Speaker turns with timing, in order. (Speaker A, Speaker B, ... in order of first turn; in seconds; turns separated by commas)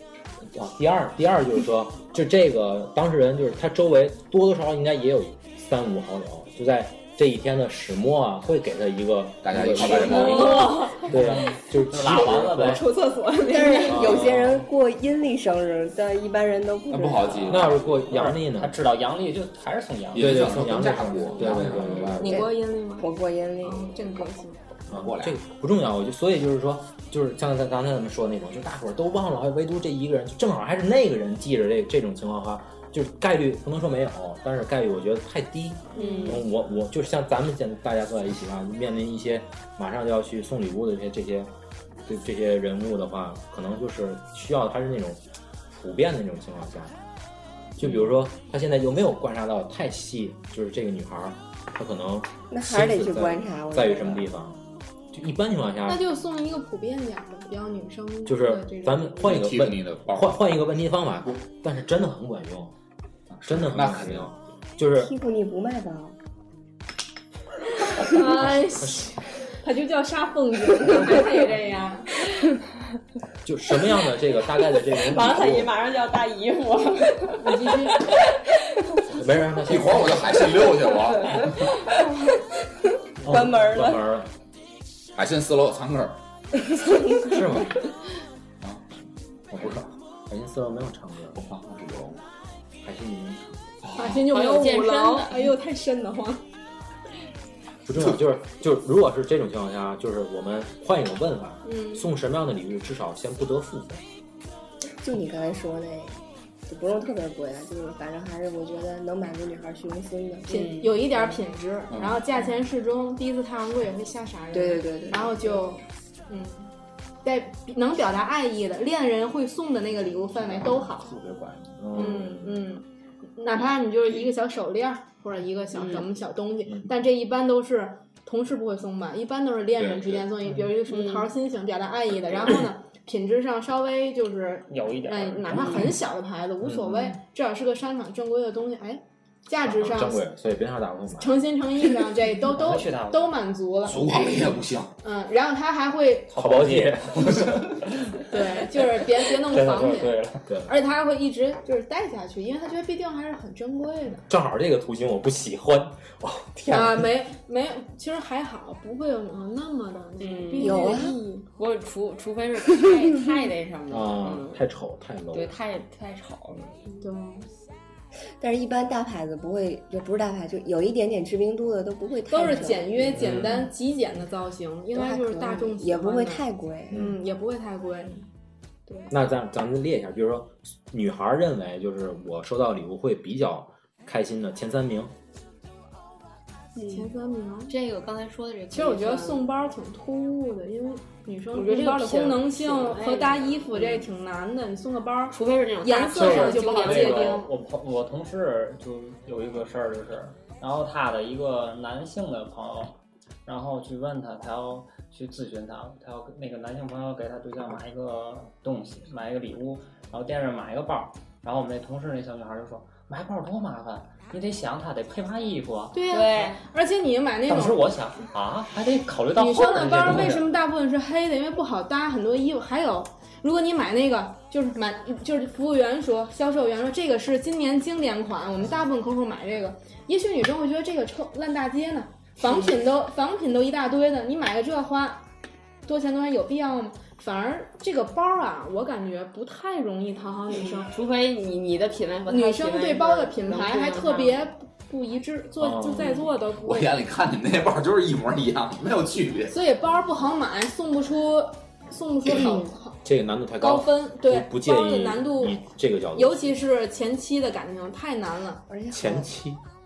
Speaker A: 0.5-12.9, Speaker B: 9.4-10.8, Speaker C: 10.3-11.1, Speaker D: 11.1-12.9, Speaker C: 12.7-14.2, Speaker E: 13.4-17.6, Speaker A: 13.9-14.6, Speaker B: 16.9-17.9, Speaker A: 17.5-18.8, Speaker D: 17.6-20.8, Speaker B: 20.1-22.3, Speaker A: 20.2-22.4, Speaker C: 21.0-21.6, Speaker C: 22.1-24.6, Speaker E: 22.2-24.2, Speaker B: 24.9-25.4, Speaker A: 24.9-41.5, Speaker C: 36.0-36.4, Speaker F: 36.0-36.5, Speaker A: 42.1-47.0, Speaker A: 47.8-54.6, Speaker E: 52.5-54.3, Speaker A: 55.1-56.0, Speaker C: 55.9-59.3, Speaker A: 58.3-62.7, Speaker B: 59.2-60.4, Speaker B: 63.3-64.3, Speaker A: 63.5-65.1, Speaker E: 65.0-66.2, Speaker C: 67.9-72.1, Speaker A: 68.4-69.1, Speaker A: 73.4-75.8, Speaker F: 75.0-77.7, Speaker C: 77.4-78.1, Speaker A: 79.1-80.5, Speaker B: 79.7-81.7, Speaker A: 83.2-84.3, Speaker E: 83.3-83.8, Speaker F: 83.3-83.9, Speaker B: 85.2-86.2, Speaker A: 87.2-87.8, Speaker B: 88.6-88.9, Speaker A: 89.5-91.5, Speaker B: 91.4-92.2, Speaker A: 92.8-93.5, Speaker B: 93.8-94.2, Speaker C: 94.0-96.4, Speaker F: 94.3-95.4, Speaker A: 97.9-104.0, Speaker C: 101.7-102.1, Speaker E: 104.9-111.4, Speaker C: 110.5-116.7, Speaker F: 110.5-110.9, Speaker B: 111.9-112.3, Speaker E: 114.5-115.6, Speaker C: 117.2-121.1, Speaker B: 120.3-122.0, Speaker A: 121.8-122.7, Speaker C: 121.9-122.8, Speaker C: 123.4-140.2, Speaker F: 125.8-126.0, Speaker B: 129.8-130.2, Speaker F: 130.9-131.3, Speaker D: 134.7-135.9, Speaker A: 136.6-137.2, Speaker A: 139.6-141.4, Speaker C: 141.2-144.2, Speaker D: 142.5-143.3, Speaker B: 143.9-144.9, Speaker C: 145.0-146.5, Speaker D: 146.3-148.3, Speaker A: 146.4-147.7, Speaker C: 148.3-154.3, Speaker D: 149.2-150.5, Speaker A: 150.5-150.7, Speaker A: 154.3-157.1, Speaker C: 156.7-161.4, Speaker F: 160.2-164.6, Speaker E: 160.6-161.2, Speaker A: 163.9-165.5, Speaker F: 165.3-166.7, Speaker C: 167.0-167.5, Speaker E: 168.4-173.2, Speaker C: 172.3-178.2, Speaker A: 173.1-173.7, Speaker E: 174.9-177.1, Speaker A: 179.1-185.1, Speaker F: 186.8-187.1, Speaker C: 186.9-187.8, Speaker F: 187.7-189.5, Speaker C: 188.7-197.5, Speaker F: 191.5-194.1, Speaker F: 195.3-197.4, Speaker D: 196.1-216.0, Speaker C: 215.9-217.9, Speaker F: 216.1-216.6, Speaker D: 217.5-220.5, Speaker C: 219.3-235.2, Speaker C: 235.8-240.9, Speaker F: 240.6-244.5, Speaker C: 242.3-247.0, Speaker A: 245.6-246.3, Speaker B: 246.6-249.6, Speaker C: 249.5-253.0, Speaker A: 253.1-256.6, Speaker C: 253.6-255.6, Speaker C: 256.1-258.6, Speaker E: 258.7-259.3, Speaker A: 258.9-259.6